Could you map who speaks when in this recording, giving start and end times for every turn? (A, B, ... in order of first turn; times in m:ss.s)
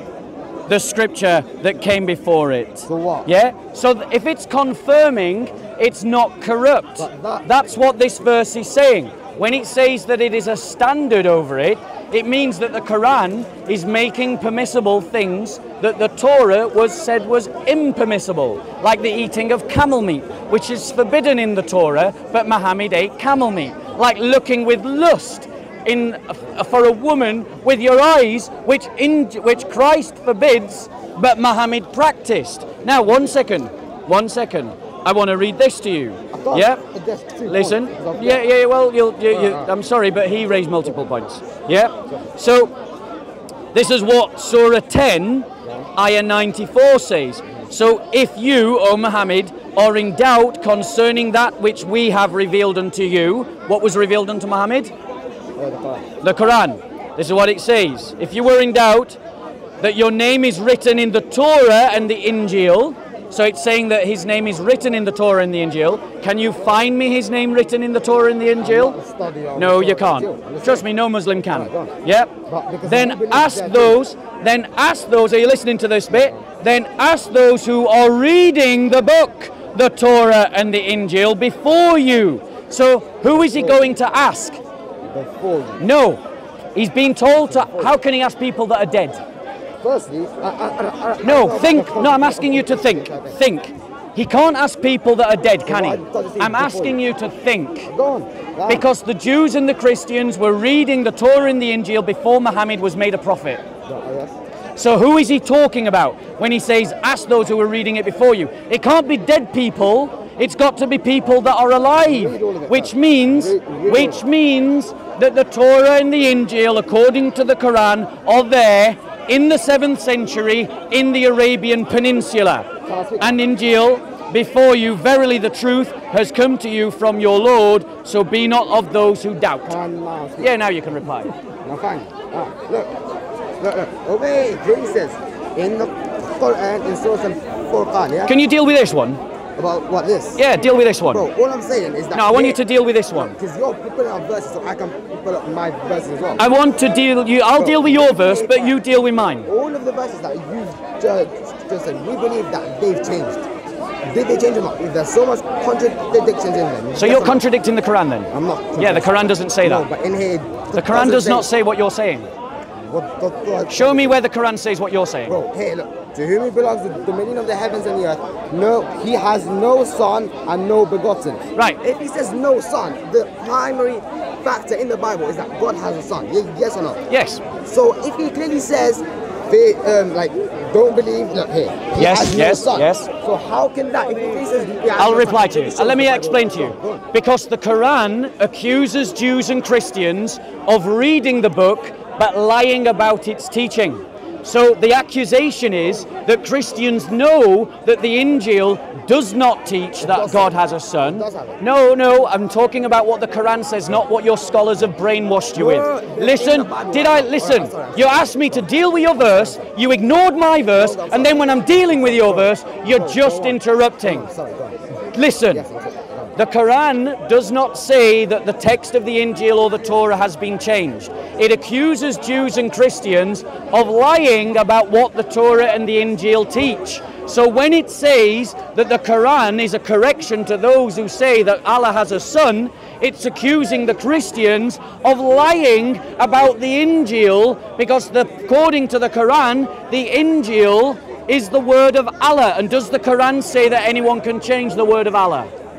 0:00.7-0:36.8 A
0:02.9-0:03.3 B
0:07.0-0:07.5 B
0:36.3-0:38.4 B
0:37.4-0:42.7 A
0:39.3-0:39.7 B
0:43.7-0:54.9 A
0:55.6-0:56.1 B
0:56.2-0:59.2 A
0:59.8-1:09.0 A
1:08.6-1:10.9 B
1:09.6-1:24.6 A
1:11.5-1:14.0 B
1:16.1-1:16.4 B
1:23.3-1:23.9 B
1:25.1-1:25.9 B
1:25.8-1:26.2 A
1:26.8-1:29.2 A
1:27.5-1:28.0 B
1:29.8-1:33.4 B
1:31.2-1:37.9 A
1:35.6-1:37.0 B
1:37.9-1:38.9 B
1:38.7-1:43.6 A
1:43.9-1:44.4 B
1:44.8-2:09.8 A
1:52.0-1:54.2 B
2:02.8-2:03.4 B
2:09.6-2:10.6 B
2:10.4-2:11.3 A
2:11.6-2:13.0 B
2:13.6-2:18.4 B
2:18.3-2:19.2 A
2:19.6-2:20.4 B
2:20.4-2:21.3 A
2:21.1-2:22.6 B
2:22.1-2:23.4 A
2:23.1-2:26.4 B
2:26.4-2:29.5 A
2:27.6-2:28.8 B
2:29.4-2:33.5 B
2:34.1-2:37.4 B
2:37.0-2:39.9 A
2:38.3-2:41.5 B
2:40.7-2:42.3 A
2:42.8-2:44.2 B
2:43.7-2:45.4 A
2:45.3-2:57.0 B
2:57.1-2:57.4 A
2:57.6-3:07.0 B
3:02.0-3:03.1 A
3:05.0-3:34.3 A
3:20.0-3:21.6 B
3:25.6-3:29.7 B
3:30.7-3:34.8 B
3:35.1-3:35.6 A
3:35.5-3:36.4 B
3:36.4-4:05.5 A